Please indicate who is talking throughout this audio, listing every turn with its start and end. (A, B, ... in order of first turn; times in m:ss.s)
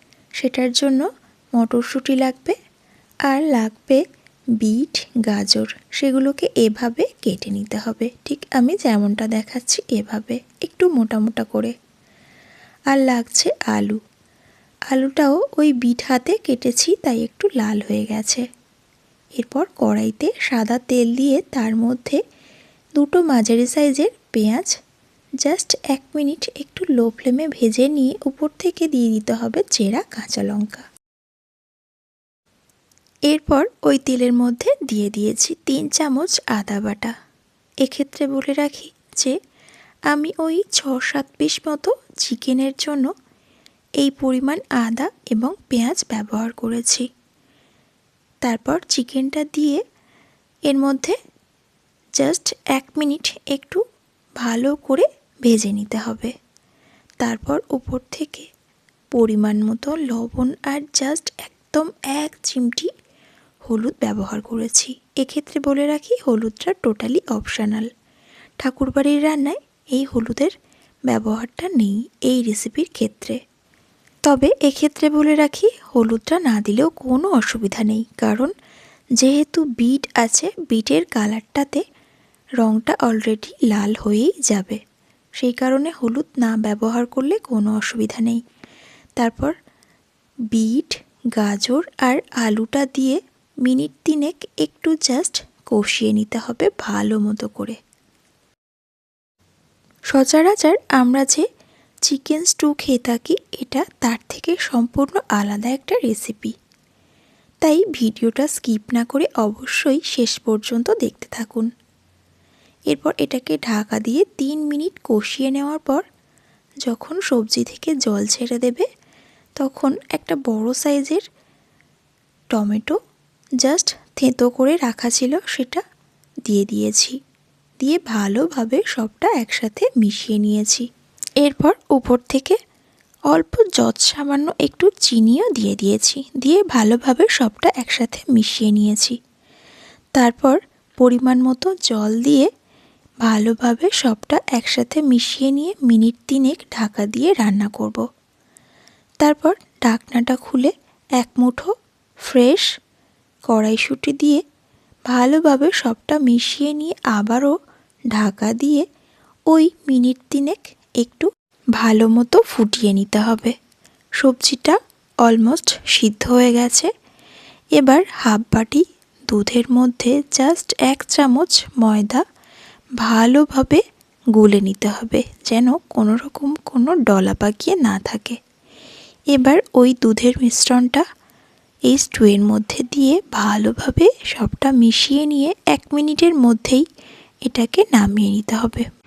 0:00.4-0:01.0 A
0:01.6-0:02.6 A
0:03.3-0:04.0 A
0:04.6-0:11.7 A
0:12.9-0:14.0 A
0:14.9-0:18.4 A
0:19.4-0:22.2 A
0:23.0-0:24.7 A
0:25.4-0:30.8 A
0:33.3-0:37.1 A
0:37.8-0:39.3 A
0:40.1-0:43.1 A
0:44.0-0:47.0 A
0:48.4-0:49.8 A
0:50.7-0:51.2 A
0:52.2-0:53.8 A
0:54.4-0:56.3 A
0:57.2-0:58.5 A
0:59.1-1:02.9 A
1:03.7-1:07.9 A
1:08.6-1:10.5 A
1:11.1-1:13.4 A
1:14.3-1:18.5 A
1:19.2-1:21.8 A
1:22.6-1:24.8 A
1:25.4-1:28.4 A
1:29.2-1:29.5 A
1:30.5-1:37.8 A
1:40.1-1:41.4 A
1:42.0-1:46.5 A
1:47.6-1:51.7 A
1:52.9-1:56.0 A
1:56.8-1:58.8 A
1:59.6-2:01.2 A
2:02.5-2:03.0 A
2:03.6-2:05.8 A
2:06.5-2:07.2 A
2:07.8-2:10.9 A
2:11.4-2:12.6 A
2:13.3-2:19.2 A
2:20.2-2:22.5 A
2:23.2-2:28.0 A
2:29.2-2:31.7 A
2:32.2-2:32.7 A
2:33.5-2:34.4 A
2:35.1-2:37.5 A
2:38.1-2:38.8 A
2:39.5-2:43.5 A
2:44.2-2:46.9 A
2:47.8-2:52.2 A
2:53.0-2:53.8 A
2:54.3-2:58.4 A
2:59.3-3:01.0 A
3:01.9-3:06.8 A
3:07.5-3:08.8 A